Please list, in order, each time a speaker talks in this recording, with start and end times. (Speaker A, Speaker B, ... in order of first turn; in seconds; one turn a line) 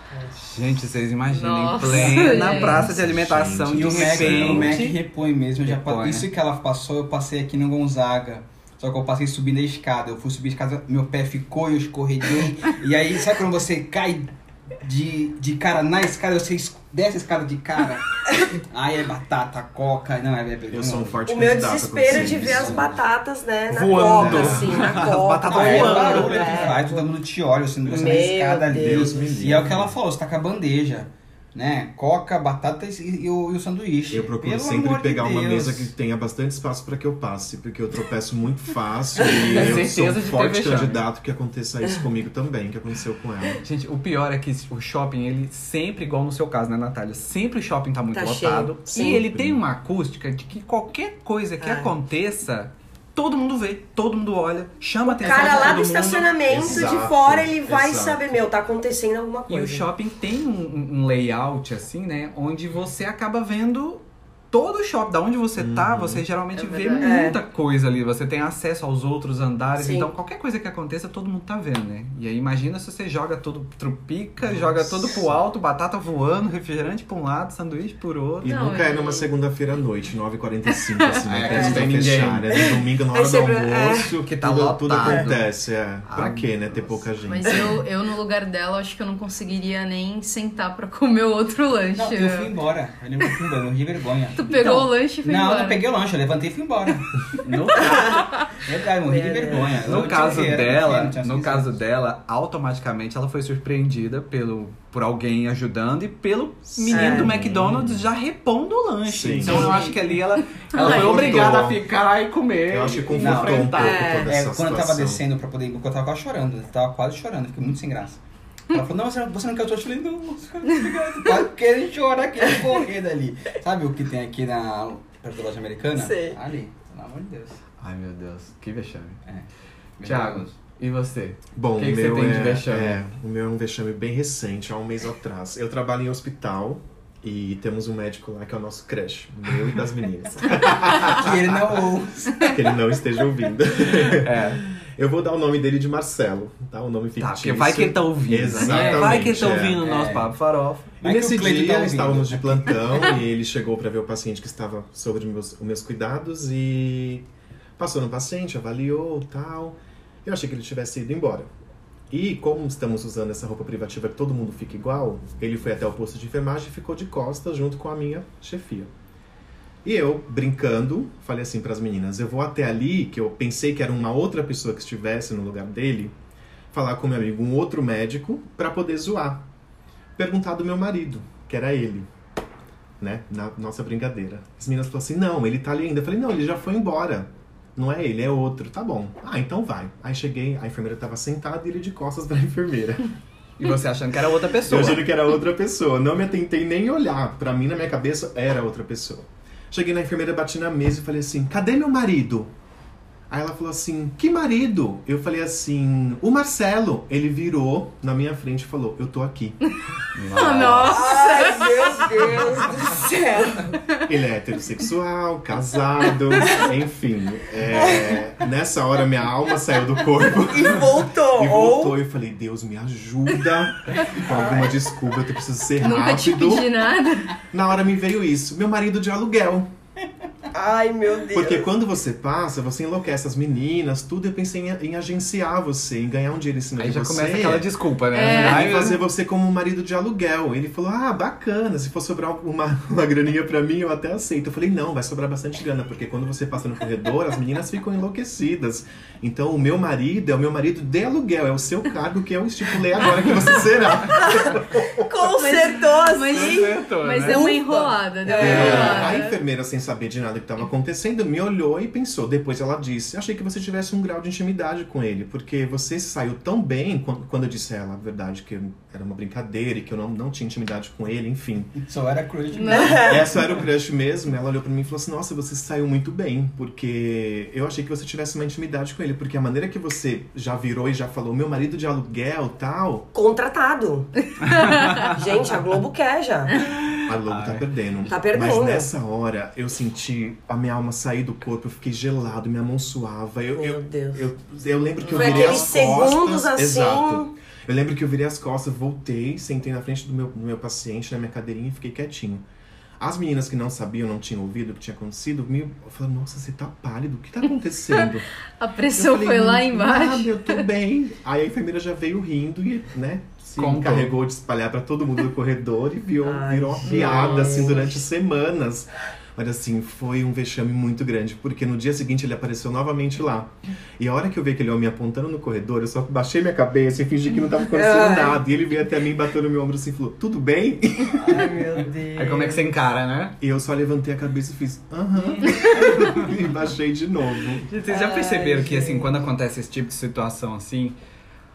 Speaker A: 0.1-0.3
Speaker B: 0.3-5.0
Speaker C: 1.3-2.9
Speaker D: 1.8-2.7
Speaker E: 2.7-4.8
Speaker D: 3.7-21.5
Speaker B: 5.6-6.2
Speaker E: 20.7-23.0
Speaker A: 21.3-27.0
Speaker D: 22.1-22.9
Speaker B: 23.7-26.7
Speaker E: 23.9-25.0
Speaker D: 25.5-35.9
Speaker A: 27.9-29.3
Speaker E: 28.7-29.9
Speaker E: 34.1-43.6
Speaker B: 39.5-41.0
Speaker B: 43.6-56.8
Speaker A: 48.1-49.2
Speaker E: 48.9-49.6
Speaker A: 51.6-51.9
Speaker A: 55.0-59.9
Speaker C: 55.2-55.8
Speaker E: 56.5-58.5
Speaker B: 59.5-78.6
Speaker E: 65.6-66.3
Speaker C: 66.5-67.3
Speaker A: 67.0-67.4
Speaker A: 69.8-70.1
Speaker E: 74.4-75.3
Speaker E: 78.4-87.8
Speaker C: 78.4-79.3
Speaker B: 81.2-82.5
Speaker A: 81.5-81.9
Speaker A: 82.6-84.1
Speaker B: 84.2-85.5
Speaker B: 86.1-87.1
Speaker C: 87.3-92.5
Speaker D: 91.9-97.9
Speaker C: 94.3-95.8
Speaker B: 97.4-98.2
Speaker D: 98.6-101.7
Speaker A: 99.1-99.7
Speaker B: 99.9-114.1
Speaker E: 106.7-108.0
Speaker A: 106.9-107.3
Speaker E: 109.1-109.7
Speaker C: 109.6-110.0
Speaker D: 110.7-111.6
Speaker E: 110.8-111.8
Speaker E: 112.7-115.2
Speaker D: 113.1-127.6
Speaker A: 113.7-114.3
Speaker A: 126.0-126.4
Speaker B: 127.8-129.2
Speaker D: 129.2-130.5
Speaker B: 130.0-133.0
Speaker E: 131.5-141.6
Speaker D: 141.0-142.5
Speaker E: 142.4-149.8
Speaker B: 144.0-144.6
Speaker B: 147.2-151.0
Speaker D: 148.6-150.3
Speaker D: 151.0-153.1
Speaker E: 151.0-161.5
Speaker E: 162.1-168.9
Speaker E: 169.8-176.2
Speaker E: 176.7-179.5
Speaker E: 180.2-182.1
Speaker E: 183.0-193.1
Speaker B: 193.6-195.1
Speaker E: 194.7-202.5
Speaker E: 203.3-209.6
Speaker B: 210.1-211.1
Speaker C: 210.3-212.2
Speaker A: 210.9-213.8
Speaker E: 214.1-226.8
Speaker A: 216.4-216.7
Speaker A: 217.8-218.1
Speaker A: 220.5-221.9
Speaker A: 224.2-224.9
Speaker C: 225.8-227.4
Speaker E: 227.5-229.7
Speaker A: 230.5-231.7
Speaker E: 231.3-255.1
Speaker B: 236.8-239.0
Speaker C: 238.1-238.9
Speaker A: 254.1-259.1
Speaker C: 255.4-259.4
Speaker B: 256.3-257.5
Speaker E: 258.4-271.8
Speaker D: 271.8-273.5
Speaker C: 272.5-273.2
Speaker A: 272.7-273.1
Speaker E: 273.1-283.1
Speaker A: 283.1-284.1
Speaker C: 284.5-285.1
Speaker A: 285.1-286.5
Speaker B: 286.6-287.7
Speaker E: 287.1-302.4
Speaker A: 288.1-288.9
Speaker A: 293.5-294.2
Speaker A: 295.0-297.3
Speaker E: 303.0-308.3
Speaker C: 307.9-310.7
Speaker E: 308.9-331.4
Speaker B: 313.6-314.1
Speaker A: 316.2-318.0
Speaker B: 316.9-317.5
Speaker A: 327.7-328.4
Speaker A: 331.2-332.6
Speaker B: 332.2-333.4
Speaker E: 333.4-337.6
Speaker D: 335.2-336.3
Speaker B: 337.7-341.0
Speaker A: 337.9-339.1